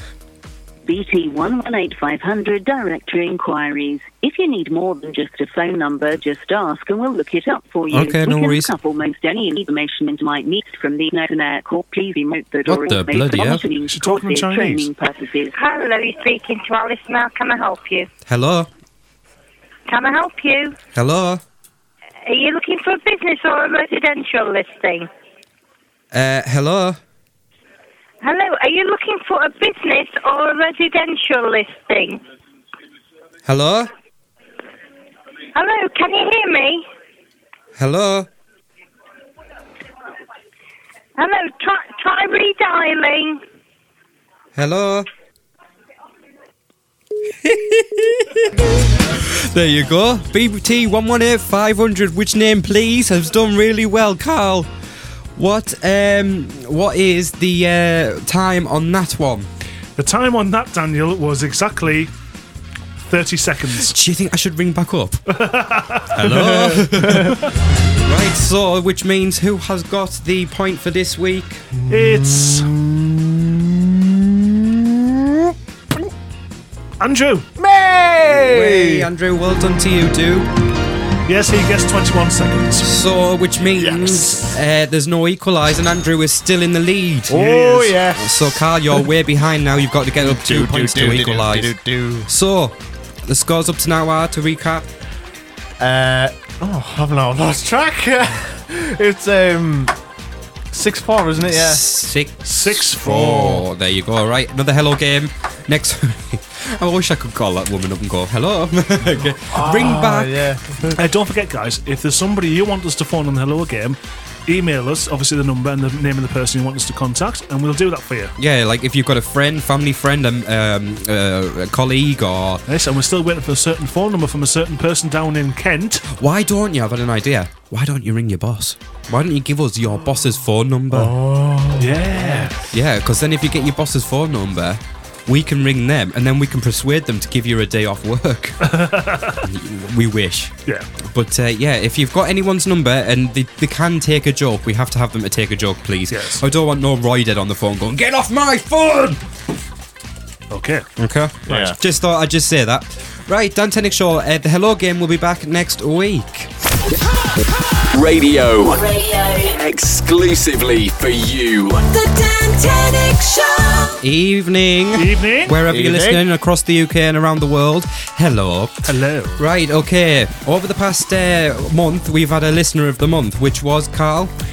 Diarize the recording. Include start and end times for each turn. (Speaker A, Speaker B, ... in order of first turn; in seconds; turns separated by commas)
Speaker A: 0.9-15.5, Speaker B: 7.9-8.7, Speaker B: 12.7-13.7, Speaker C: 13.8-14.9, Speaker D: 15.5-18.1, Speaker B: 18.3-18.7, Speaker D: 19.9-20.8, Speaker B: 20.9-21.4, Speaker D: 22.3-25.1, Speaker B: 26.1-27.0, Speaker D: 28.2-32.2, Speaker B: 33.5-33.9, Speaker D: 35.5-36.9, Speaker B: 37.8-38.3, Speaker D: 41.2-43.4, Speaker B: 44.6-45.1, Speaker B: 47.4-54.7, Speaker B: 55.4-59.5, Speaker C: 60.0-62.1, Speaker C: 63.1-63.9, Speaker B: 63.8-65.2, Speaker C: 65.3-67.4, Speaker B: 66.2-67.4, Speaker B: 68.0-71.6, Speaker E: 71.8-75.5, Speaker C: 71.9-72.7, Speaker C: 77.0-77.5, Speaker E: 77.6-79.1, Speaker B: 78.3-80.5, Speaker C: 81.3-82.9, Speaker B: 82.8-87.5, Speaker E: 83.8-84.3, Speaker E: 87.3-88.5, Speaker C: 87.3-88.0, Speaker B: 88.2-91.7, Speaker E: 90.2-92.3, Speaker B: 92.3-92.7, Speaker B: 93.3-94.9, Speaker E: 95.8-100.0, Speaker E: 100.7-101.8, Speaker B: 101.5-110.3, Speaker C: 102.5-103.7, Speaker E: 109.4-111.0, Speaker C: 111.0-118.3, Speaker B: 118.4-122.6, Speaker C: 122.7-126.1, Speaker B: 126.1-131.1, Speaker E: 130.9-132.5, Speaker C: 131.8-132.6, Speaker B: 132.7-138.6, Speaker C: 138.6-139.4, Speaker B: 139.4-140.5, Speaker B: 141.1-149.2, Speaker C: 146.1-146.4, Speaker C: 150.5-150.9, Speaker B: 151.0-156.5, Speaker E: 151.5-151.8, Speaker F: 157.9-158.8, Speaker G: 158.7-159.6, Speaker F: 159.5-161.8, Speaker G: 161.9-164.0, Speaker B: 164.0-168.7, Speaker C: 164.9-165.6, Speaker E: 165.7-166.2, Speaker C: 168.9-169.4, Speaker B: 169.4-174.3